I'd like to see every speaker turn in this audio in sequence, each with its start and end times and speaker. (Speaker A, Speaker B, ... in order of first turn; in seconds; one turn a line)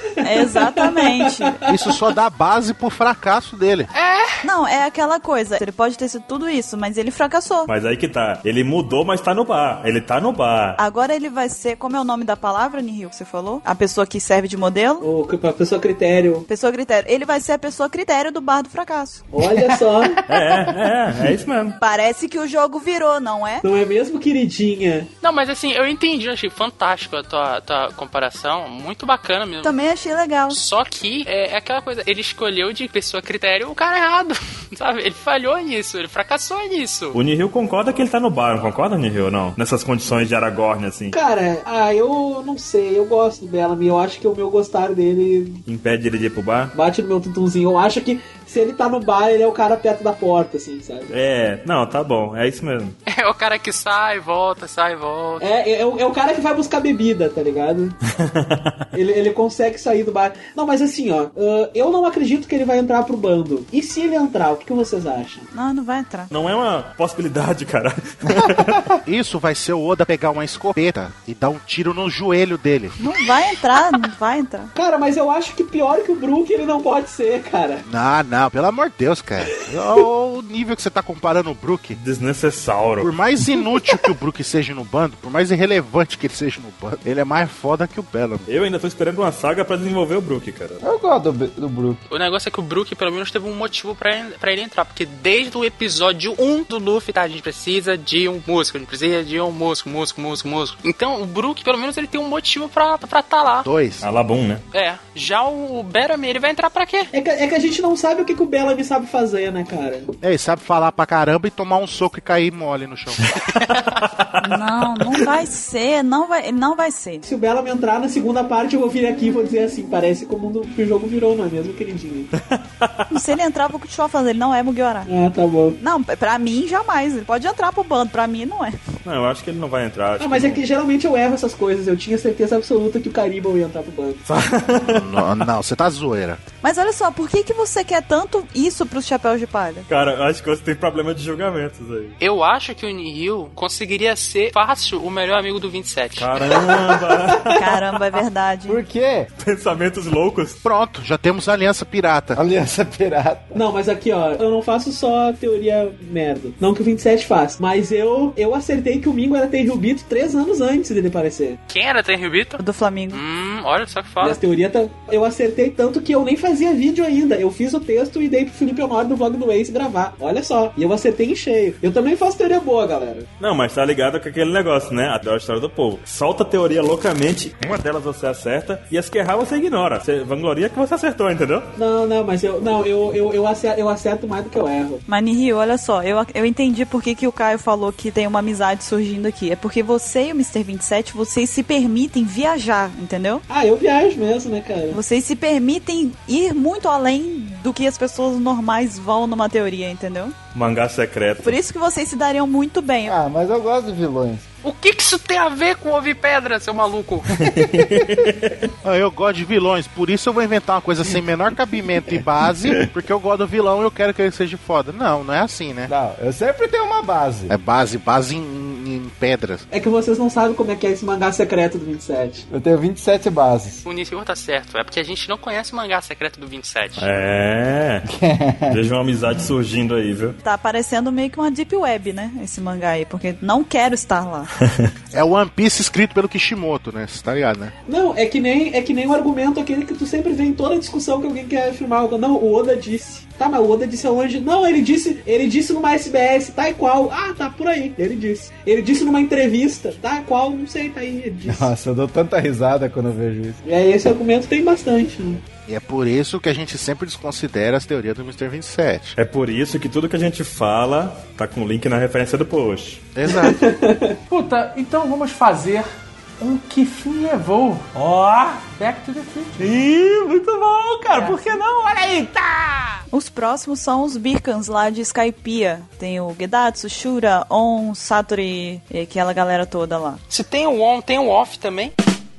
Speaker A: 0.2-1.6
Speaker B: 0.3-1.8
Speaker C: 1.7-3.9
Speaker D: 3.9-4.4
Speaker A: 4.4-7.7
Speaker E: 7.7-10.8
Speaker A: 10.8-15.1
Speaker B: 15.0-16.5
Speaker A: 16.5-19.2
Speaker B: 19.3-20.3
Speaker E: 20.3-21.8
Speaker A: 21.8-23.6
Speaker B: 23.6-25.1
Speaker D: 25.2-29.8
Speaker A: 29.6-30.6
Speaker D: 30.5-37.2
Speaker E: 37.1-41.2
Speaker B: 41.1-45.6
Speaker E: 45.7-46.7
Speaker B: 46.7-51.1
Speaker E: 51.1-53.0
Speaker D: 53.1-55.4
Speaker B: 55.4-58.0
Speaker E: 58.1-58.9
Speaker B: 58.9-65.5
Speaker A: 65.5-66.3
Speaker E: 66.3-68.9
Speaker F: 68.3-68.9
Speaker C: 69.0-73.0
Speaker A: 73.0-74.7
Speaker B: 74.8-77.8
Speaker C: 77.9-82.0
Speaker E: 82.0-83.1
Speaker C: 83.0-88.5
Speaker E: 88.5-90.8
Speaker F: 90.8-92.0
Speaker D: 92.1-103.7
Speaker C: 103.7-104.1
Speaker E: 104.0-104.6
Speaker D: 104.7-107.1
Speaker B: 107.1-110.1
Speaker C: 110.2-113.3
Speaker D: 113.6-114.0
Speaker E: 114.1-114.4
Speaker A: 114.4-117.2
Speaker B: 117.3-122.3
Speaker E: 122.5-123.1
Speaker A: 123.1-125.1
Speaker B: 125.1-125.8
Speaker A: 125.8-128.8
Speaker E: 129.1-130.6
Speaker B: 130.2-134.2
Speaker E: 134.3-135.2
Speaker C: 134.8-136.4
Speaker A: 136.6-139.9
Speaker E: 139.9-142.2
Speaker D: 142.2-146.3
Speaker E: 146.2-147.6
Speaker B: 146.4-147.8
Speaker A: 147.6-148.8
Speaker F: 148.7-149.3
Speaker E: 149.4-150.6
Speaker C: 150.6-152.4
Speaker F: 152.3-153.6
Speaker B: 153.5-161.6
Speaker D: 161.7-164.4
Speaker A: 162.6-163.2
Speaker B: 164.2-173.3
Speaker E: 173.4-181.7
Speaker B: 181.8-185.0
Speaker A: 185.1-193.4
Speaker B: 193.5-195.0
Speaker A: 194.9-200.3
Speaker E: 200.5-201.6
Speaker A: 201.4-203.2
Speaker F: 203.1-204.5
Speaker D: 204.6-207.3
Speaker E: 207.4-208.7
Speaker F: 207.5-208.0
Speaker C: 208.8-215.9
Speaker F: 215.9-217.5
Speaker C: 217.5-219.7
Speaker B: 219.7-222.5
Speaker F: 222.5-223.8
Speaker D: 223.8-227.1
Speaker E: 227.0-228.1
Speaker F: 228.1-228.8
Speaker E: 228.7-230.4
Speaker A: 230.4-234.5
Speaker C: 235.1-237.7
Speaker B: 237.9-251.7
Speaker F: 251.5-253.6
Speaker B: 253.7-255.4
Speaker C: 255.7-259.2
Speaker E: 259.2-263.0
Speaker C: 263.1-263.6
Speaker B: 263.3-264.2
Speaker G: 264.3-265.9
Speaker G: 266.4-272.7
Speaker F: 271.1-271.5
Speaker A: 273.1-280.2
Speaker D: 280.3-281.9